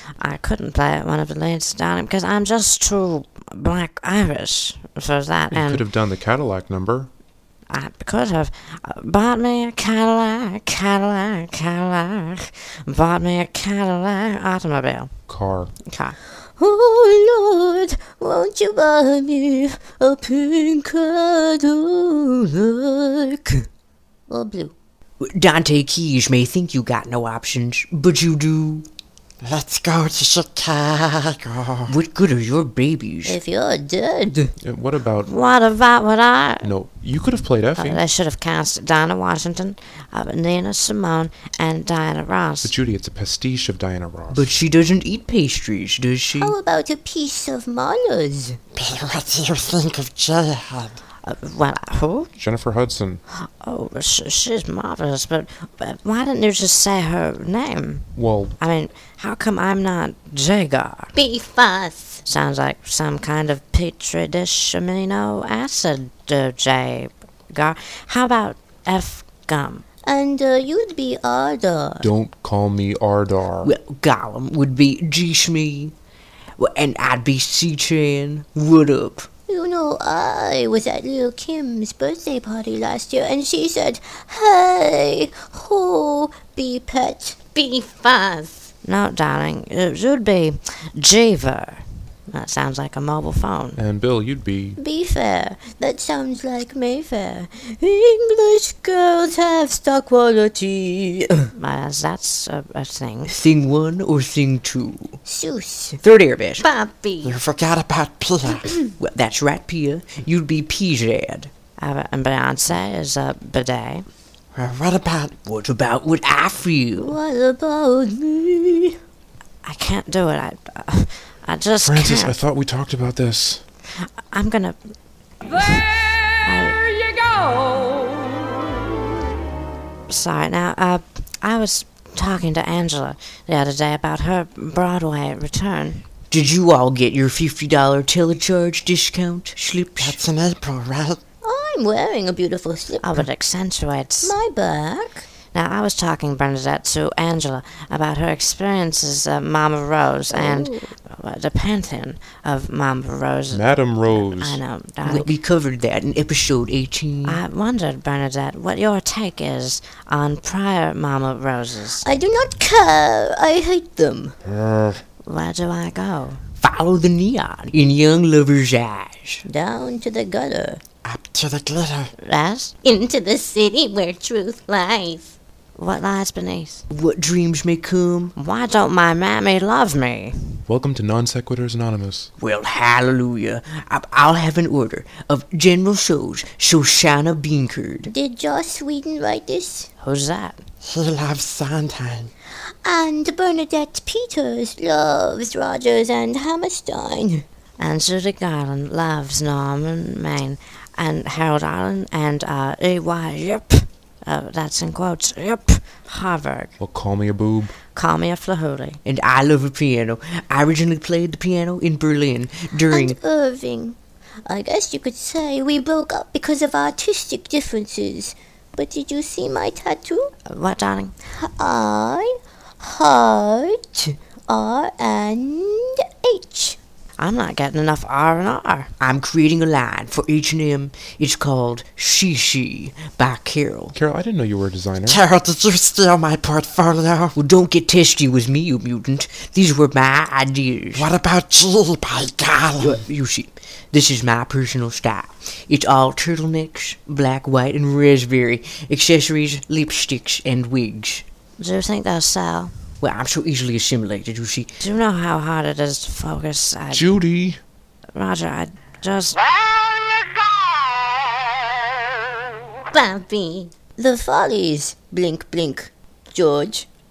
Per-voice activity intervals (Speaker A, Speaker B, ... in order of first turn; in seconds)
Speaker A: 0.2-5.8, 7.7-15.1, 15.9-16.2, 35.2-36.7, 37.8-42.7, 51.2-52.3, 53.3-61.1, 62.2-69.8, 88.8-93.8, 101.5-103.3, 111.8-114.0, 119.6-122.4, 124.0-124.8, 125.5-126.8, 130.1-136.1, 143.0-144.3, 145.5-155.3, 157.2-162.1, 165.2-166.4, 172.2-172.7, 175.8-176.8, 178.3-180.6, 190.0-190.6, 197.8-206.7, 207.9-209.0, 220.4-221.1, 227.2-228.9, 251.6-252.8, 254.8-257.2, 258.1-259.4
Speaker B: 5.5-7.1, 15.3-15.7, 34.6-35.3, 36.6-38.0, 42.6-44.5, 52.4-53.2, 58.1-58.5, 72.0-73.7, 93.8-94.8, 121.8-123.6, 153.5-154.6, 180.7-182.3, 206.8-207.7, 233.9-235.2, 256.9-257.6
Speaker C: 16.6-23.6, 24.3-24.7, 33.2-34.5, 46.4-48.6, 61.1-62.2, 70.0-72.0, 79.5-88.7, 94.8-101.5, 105.2-106.0, 106.6-107.4, 117.0-118.9, 141.4-143.2, 144.2-145.2, 150.3-150.9, 162.0-164.4, 169.4-170.8, 172.8-175.3, 188.1-189.9, 192.8-197.4, 212.9-220.3, 221.4-226.8, 262.9-266.9
Speaker D: 25.2-28.9, 31.9-33.4, 44.3-46.5, 73.6-75.9, 76.6-79.3, 103.3-105.2, 106.0-106.6, 109.0-111.5, 115.5-117.2, 136.3-140.2, 155.0-157.4, 166.6-169.4, 176.9-178.3, 182.4-188.1, 209.1-213.2, 229.0-233.9, 237.3-241.1, 242.8-251.2, 253.0-254.7
Speaker E: 29.4-32.0, 48.7-51.0, 107.2-108.7, 114.5-115.3, 140.0-141.2, 171.0-172.1, 190.8-192.3, 235.1-237.3, 240.9-243.0